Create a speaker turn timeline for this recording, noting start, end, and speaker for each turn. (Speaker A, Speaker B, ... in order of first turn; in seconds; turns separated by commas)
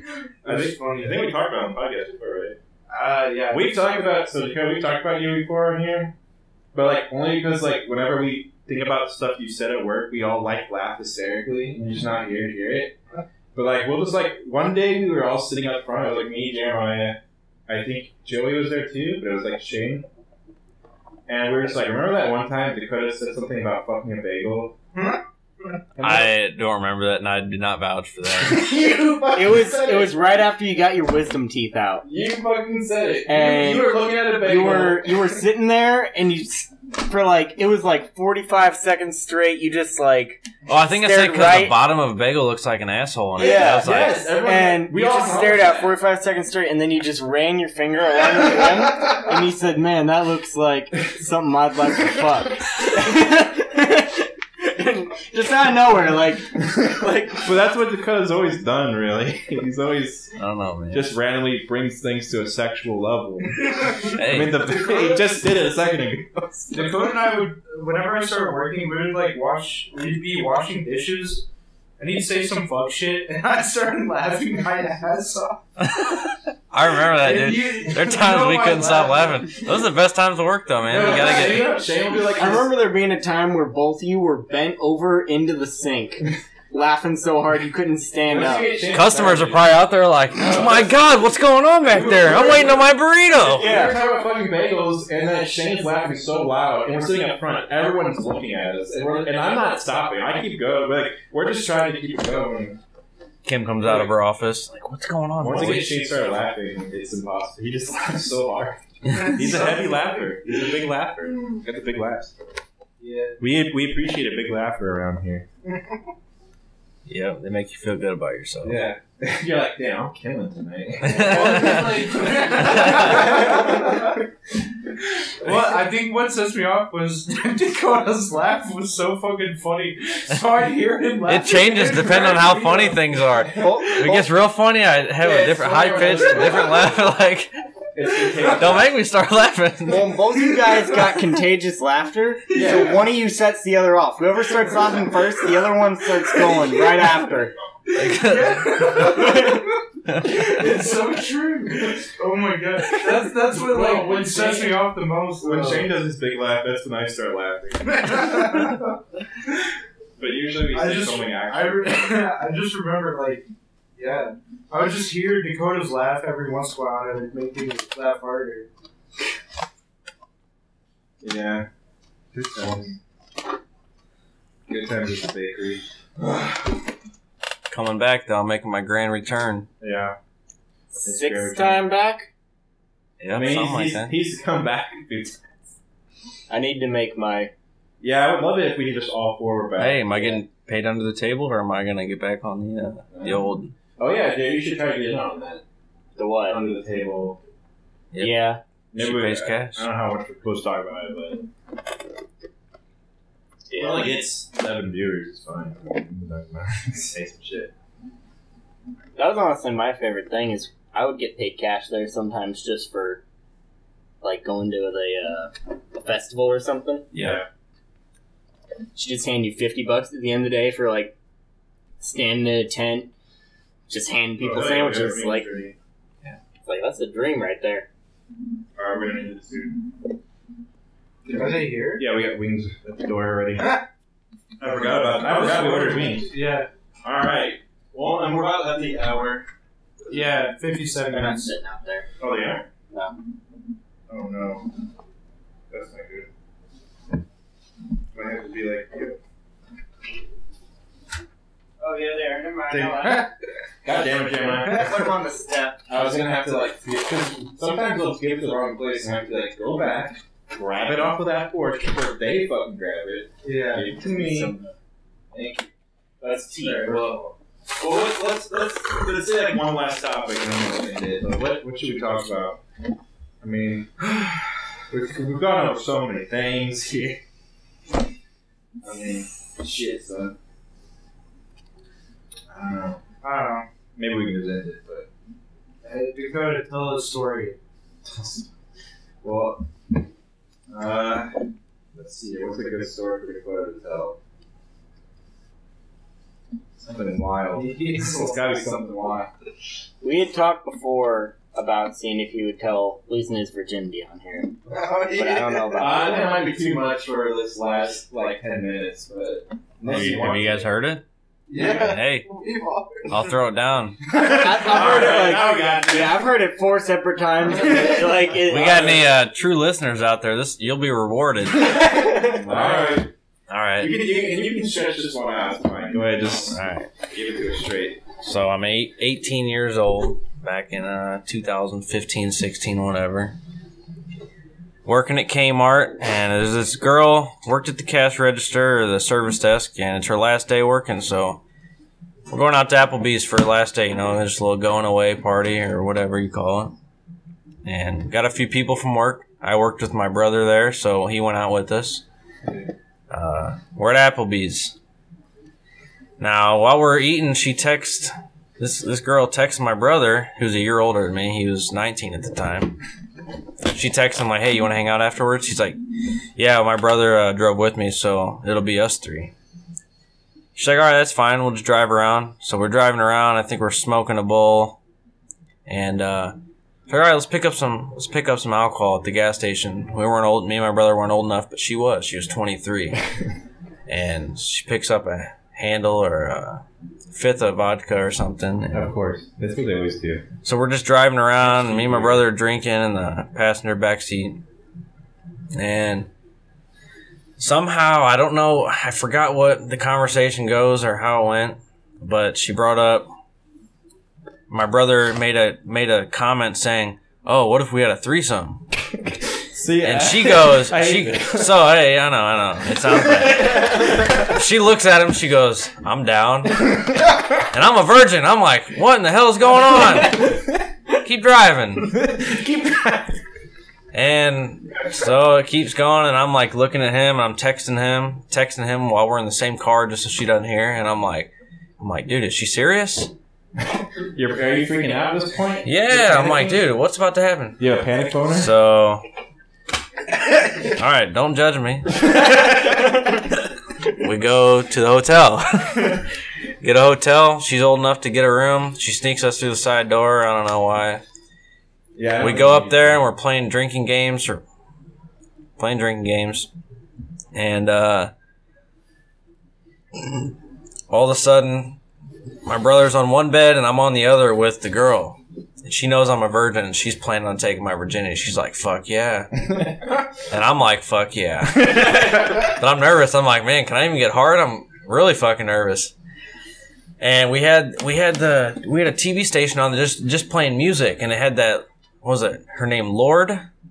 Speaker A: 0.4-1.2, Speaker B: 0.4-2.6, Speaker A: 2.9-3.7, Speaker B: 3.5-6.1, Speaker B: 6.7-13.0, Speaker B: 13.5-20.1, Speaker B: 21.3-24.7, Speaker A: 24.9-25.2, Speaker B: 25.9-26.3, Speaker C: 26.0-28.7, Speaker B: 28.4-30.1, Speaker D: 29.3-32.0, Speaker B: 32.0-35.3, Speaker D: 33.3-41.8, Speaker C: 40.7-44.3, Speaker D: 43.4-57.5, Speaker B: 43.4-45.9, Speaker B: 57.4-60.3, Speaker C: 60.4-61.1, Speaker B: 60.9-66.8, Speaker C: 64.1-64.7, Speaker A: 66.7-71.5, Speaker A: 72.0-75.6, Speaker C: 75.8-81.8, Speaker A: 77.1-79.5, Speaker B: 80.9-82.8, Speaker D: 82.2-88.8, Speaker B: 88.2-89.7, Speaker C: 88.9-93.7, Speaker B: 90.4-90.9, Speaker A: 92.0-92.7, Speaker B: 92.1-92.5, Speaker B: 93.3-102.8, Speaker D: 93.5-94.0, Speaker C: 103.4-106.1, Speaker B: 103.8-104.1, Speaker B: 105.4-112.3, Speaker C: 109.1-109.4, Speaker A: 113.0-113.4, Speaker B: 113.4-115.5, Speaker C: 117.0-118.9, Speaker B: 118.6-123.6, Speaker C: 121.0-122.0, Speaker A: 121.1-124.1, Speaker C: 122.5-123.3, Speaker A: 125.4-133.0, Speaker C: 131.2-137.6, Speaker D: 133.5-134.3, Speaker B: 135.4-136.8, Speaker A: 136.0-136.2, Speaker B: 137.9-138.9, Speaker C: 138.2-140.2, Speaker D: 139.8-147.5, Speaker B: 142.5-143.0, Speaker C: 147.9-149.4, Speaker A: 148.0-155.9, Speaker D: 149.2-149.6, Speaker C: 150.1-150.6, Speaker B: 153.6-154.6, Speaker B: 155.4-158.5, Speaker A: 157.9-158.8, Speaker B: 160.2-162.0, Speaker A: 160.7-163.4, Speaker A: 164.0-168.7, Speaker B: 171.2-171.7, Speaker B: 172.3-173.0, Speaker B: 174.7-176.4, Speaker C: 177.7-179.7, Speaker B: 179.8-180.2, Speaker D: 180.9-182.3, Speaker B: 181.0-181.8, Speaker C: 183.2-184.2, Speaker B: 183.3-185.4, Speaker D: 186.5-187.5, Speaker B: 188.0-190.4, Speaker C: 189.8-193.7, Speaker B: 193.1-193.4, Speaker B: 194.0-195.6, Speaker D: 196.2-196.6, Speaker B: 196.4-197.4, Speaker C: 198.1-199.8, Speaker D: 198.2-198.6, Speaker B: 198.9-201.5, Speaker D: 203.7-204.2, Speaker B: 203.7-207.7, Speaker D: 209.2-213.2, Speaker D: 214.2-217.1, Speaker B: 217.1-217.5, Speaker D: 218.9-221.1, Speaker D: 222.0-223.1, Speaker D: 223.9-225.5, Speaker B: 224.4-226.3, Speaker D: 226.6-227.9, Speaker B: 228.8-229.9, Speaker B: 231.2-233.8, Speaker A: 231.2-232.0, Speaker B: 234.6-236.3, Speaker A: 235.4-236.7, Speaker B: 237.0-239.5, Speaker A: 240.1-241.4, Speaker D: 241.1-242.1, Speaker B: 242.2-242.7, Speaker B: 244.1-244.7, Speaker B: 245.7-246.3, Speaker B: 248.1-249.2, Speaker D: 251.8-253.3, Speaker A: 252.7-253.3, Speaker B: 253.8-255.2, Speaker D: 253.9-255.8, Speaker B: 255.9-264.5, Speaker A: 263.4-263.9, Speaker D: 263.9-264.7, Speaker B: 265.3-265.7, Speaker B: 266.2-272.6, Speaker D: 266.6-267.0, Speaker B: 273.4-277.2, Speaker B: 278.8-280.3, Speaker B: 282.5-283.0, Speaker A: 283.2-283.7, Speaker B: 283.9-285.1, Speaker A: 285.8-287.6, Speaker B: 288.0-288.5, Speaker B: 289.2-289.6, Speaker B: 290.7-294.2, Speaker B: 296.8-299.3, Speaker A: 297.6-298.3, Speaker D: 300.0-306.3, Speaker A: 304.7-305.6, Speaker B: 305.7-310.7, Speaker C: 309.9-311.0, Speaker A: 311.5-313.1, Speaker C: 311.6-312.3, Speaker C: 313.1-314.0, Speaker B: 314.1-316.3, Speaker D: 314.1-319.0, Speaker B: 317.6-317.9, Speaker C: 318.4-321.9, Speaker B: 318.5-319.0, Speaker D: 321.6-322.4, Speaker B: 321.8-323.1, Speaker C: 323.5-323.9, Speaker B: 323.8-328.0, Speaker C: 326.5-326.9, Speaker C: 328.2-333.4, Speaker C: 334.8-341.4, Speaker C: 342.3-346.7, Speaker C: 347.6-352.0, Speaker C: 353.1-354.7, Speaker C: 356.2-362.8, Speaker C: 363.6-365.8, Speaker C: 366.4-369.3, Speaker C: 370.5-374.8, Speaker C: 375.6-376.3, Speaker C: 376.9-383.0, Speaker C: 383.9-388.9, Speaker B: 388.7-390.2, Speaker C: 390.4-394.4, Speaker B: 391.4-392.2, Speaker C: 395.5-396.1, Speaker C: 397.4-403.1, Speaker C: 404.5-408.6, Speaker B: 409.2-411.6, Speaker C: 409.8-420.4, Speaker B: 412.9-413.9, Speaker C: 420.9-421.9, Speaker B: 421.9-423.2, Speaker C: 423.9-433.1, Speaker B: 434.1-436.6, Speaker C: 435.6-437.6, Speaker B: 437.6-438.5, Speaker C: 438.3-439.0, Speaker C: 440.6-442.1, Speaker C: 443.9-446.0, Speaker C: 446.6-451.0, Speaker B: 451.9-453.1, Speaker C: 452.2-454.4, Speaker C: 455.6-456.5, Speaker C: 457.3-458.1, Speaker C: 459.9-460.3, Speaker C: 460.9-461.8, Speaker C: 462.4-469.4, Speaker C: 470.3-475.9, Speaker C: 477.0-483.5